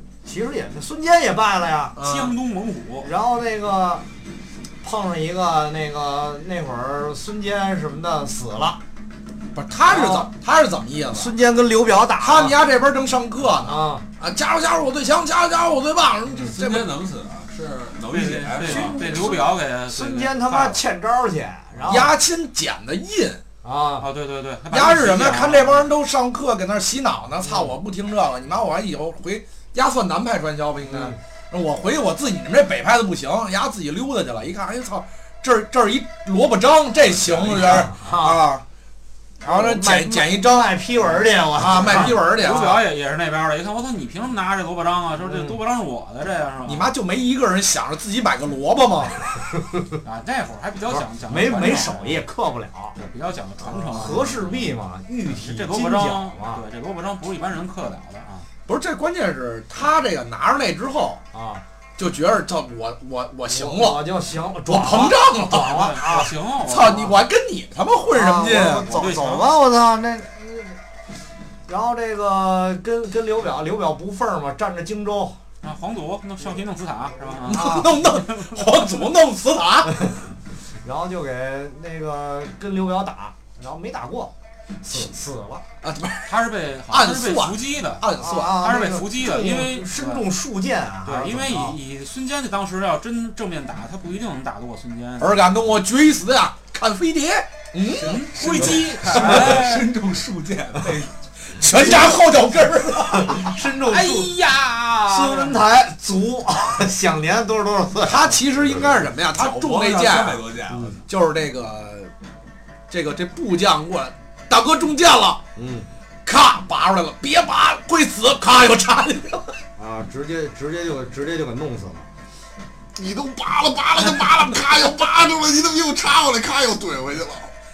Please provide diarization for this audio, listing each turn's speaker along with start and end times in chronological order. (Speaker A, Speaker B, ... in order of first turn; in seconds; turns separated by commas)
Speaker A: 0.2-2.0, Speaker B: 2.0-2.4, Speaker C: 2.0-3.1, Speaker A: 3.0-4.0, Speaker A: 4.8-8.8, Speaker B: 9.5-11.3, Speaker A: 9.9-10.3, Speaker A: 11.1-12.6, Speaker B: 12.2-16.9, Speaker A: 13.6-14.0, Speaker A: 16.3-16.6, Speaker D: 16.5-19.3, Speaker C: 18.1-20.8, Speaker A: 18.6-22.1, Speaker B: 21.9-23.4, Speaker A: 23.6-24.1, Speaker C: 24.0-25.9, Speaker B: 24.7-38.6, Speaker A: 27.4-27.7, Speaker A: 30.8-31.2, Speaker A: 37.3-38.4, Speaker B: 39.4-40.7, Speaker A: 39.4-42.2, Speaker B: 41.6-42.8, Speaker C: 41.8-46.9, Speaker A: 45.2-45.6, Speaker B: 46.6-49.3, Speaker A: 49.6-50.0, Speaker C: 50.0-52.2, Speaker A: 50.9-53.0, Speaker C: 53.0-54.8, Speaker A: 53.6-56.6, Speaker C: 55.3-58.5, Speaker B: 58.7-61.2, Speaker A: 61.3-61.6, Speaker B: 62.0-64.0, Speaker A: 63.5-66.3, Speaker B: 64.7-65.9, Speaker C: 65.5-67.2, Speaker B: 66.7-68.9, Speaker A: 68.1-70.8, Speaker C: 68.9-69.5, Speaker A: 71.7-75.4, Speaker C: 75.6-78.8, Speaker A: 77.4-77.9, Speaker B: 77.5-80.0, Speaker A: 79.9-80.2, Speaker A: 80.8-85.6, Speaker B: 85.8-86.3, Speaker C: 86.2-90.3, Speaker B: 86.9-88.6, Speaker A: 88.2-91.8, Speaker C: 91.1-95.4, Speaker B: 95.2-99.6, Speaker C: 98.0-99.9, Speaker D: 98.0-101.1, Speaker B: 101.4-103.5, Speaker A: 103.1-104.3, Speaker C: 103.8-105.6, Speaker A: 105.1-108.4, Speaker B: 108.0-110.4, Speaker D: 109.3-111.0, Speaker A: 110.7-111.0, Speaker B: 111.1-112.1, Speaker B: 112.9-115.4, Speaker A: 115.6-115.9, Speaker B: 116.2-119.6, Speaker A: 119.8-122.1, Speaker E: 123.0-127.5, Speaker B: 124.0-125.2